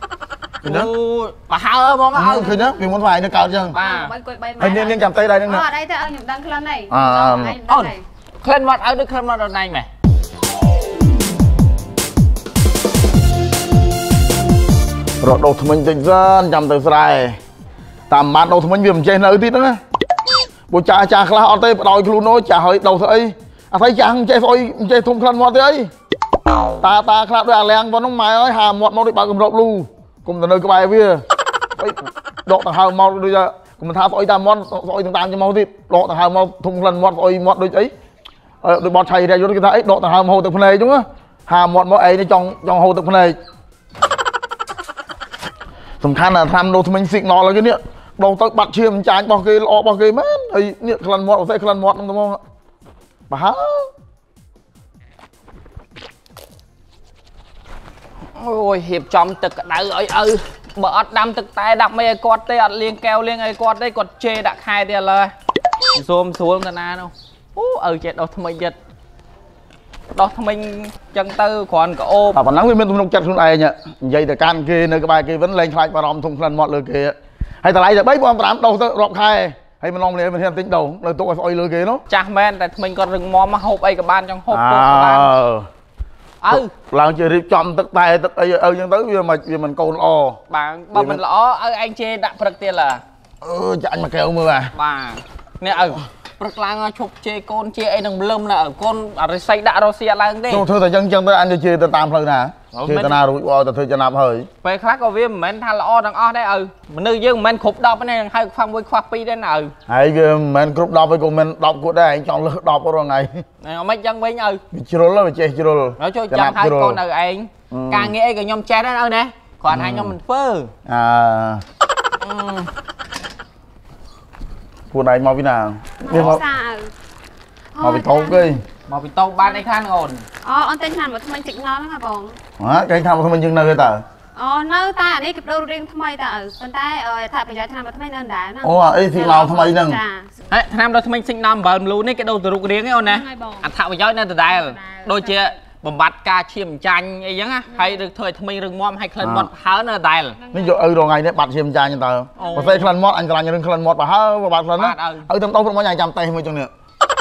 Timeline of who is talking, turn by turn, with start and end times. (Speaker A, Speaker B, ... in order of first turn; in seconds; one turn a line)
Speaker A: 0.6-0.9
Speaker B: 0.6-2.5
Speaker A: 2.1-3.8
Speaker C: 3.7-8.0
Speaker B: 3.7-4.1
Speaker A: 4.6-5.6
Speaker A: 6.9-7.6
Speaker B: 7.7-9.9
Speaker A: 15.2-17.4
Speaker A: 18.1-19.8
Speaker A: 20.7-25.9
Speaker A: 26.8-31.2
Speaker A: 31.8-37.9
Speaker A: 38.6-43.4
Speaker A: 46.0-52.4
Speaker A: 53.3-53.9
Speaker B: 58.4-65.3
Speaker B: 65.9-68.8
Speaker B: 70.1-72.4
Speaker A: 72.3-82.0
Speaker B: 82.1-85.3
Speaker A: 84.5-85.7
Speaker B: 86.4-86.7
Speaker A: 86.5-90.4
Speaker B: 90.5-93.0
Speaker A: 90.9-91.2
Speaker A: 93.4-94.7
Speaker B: 94.7-100.7
Speaker A: 100.5-104.5
Speaker B: 102.7-103.2
Speaker B: 104.6-109.7
Speaker A: 109.9-113.4
Speaker B: 113.6-114.6
Speaker A: 114.7-117.0
Speaker B: 116.0-120.7
Speaker A: 117.7-118.1
Speaker A: 119.7-120.2
Speaker A: 120.8-121.6
Speaker B: 122.2-122.7
Speaker A: 124.9-126.4
Speaker C: 126.0-126.9
Speaker C: 127.7-128.5
Speaker A: 127.8-128.6
Speaker B: 128.9-130.2
Speaker C: 130.4-132.4
Speaker A: 132.6-134.0
Speaker C: 134.3-140.3
Speaker A: 138.6-140.0
Speaker B: 140.5-150.4
Speaker C: 143.0-143.7
Speaker C: 144.5-145.4
Speaker C: 147.7-148.0
Speaker A: 149.2-149.5
Speaker C: 150.4-150.8
Speaker A: 150.5-156.7
Speaker C: 152.4-152.8
Speaker B: 152.4-152.9
Speaker B: 154.8-155.3